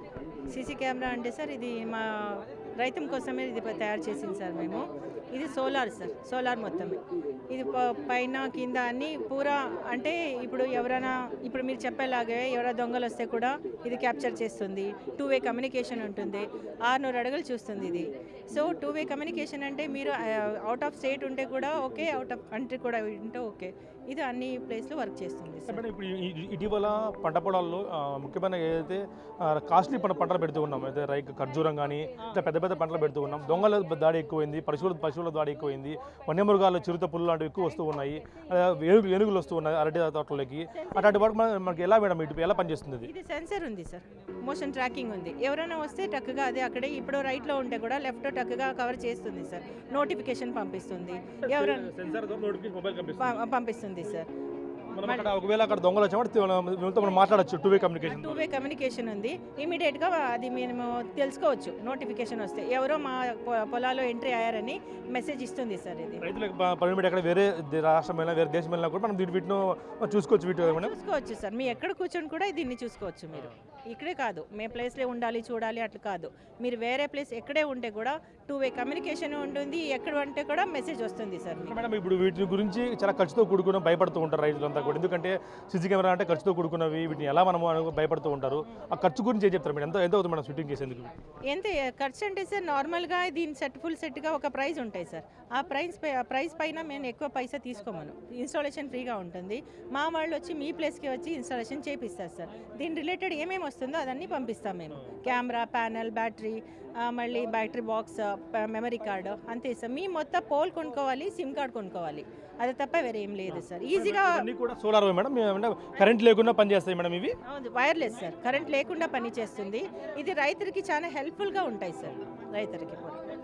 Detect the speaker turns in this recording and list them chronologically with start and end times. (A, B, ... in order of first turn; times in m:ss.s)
0:00.5-0:25.8 A
0:25.7-0:43.1 B
0:43.0-0:51.9 A
0:51.4-0:53.4 B
0:53.2-0:54.3 A
0:54.9-0:58.5 B
0:55.0-0:55.4 A
0:58.0-1:06.3 A
1:06.2-1:10.9 B
1:10.6-1:21.8 A
1:21.6-1:31.1 B
1:31.5-1:54.5 A
1:53.5-1:57.4 B
1:57.4-2:03.2 A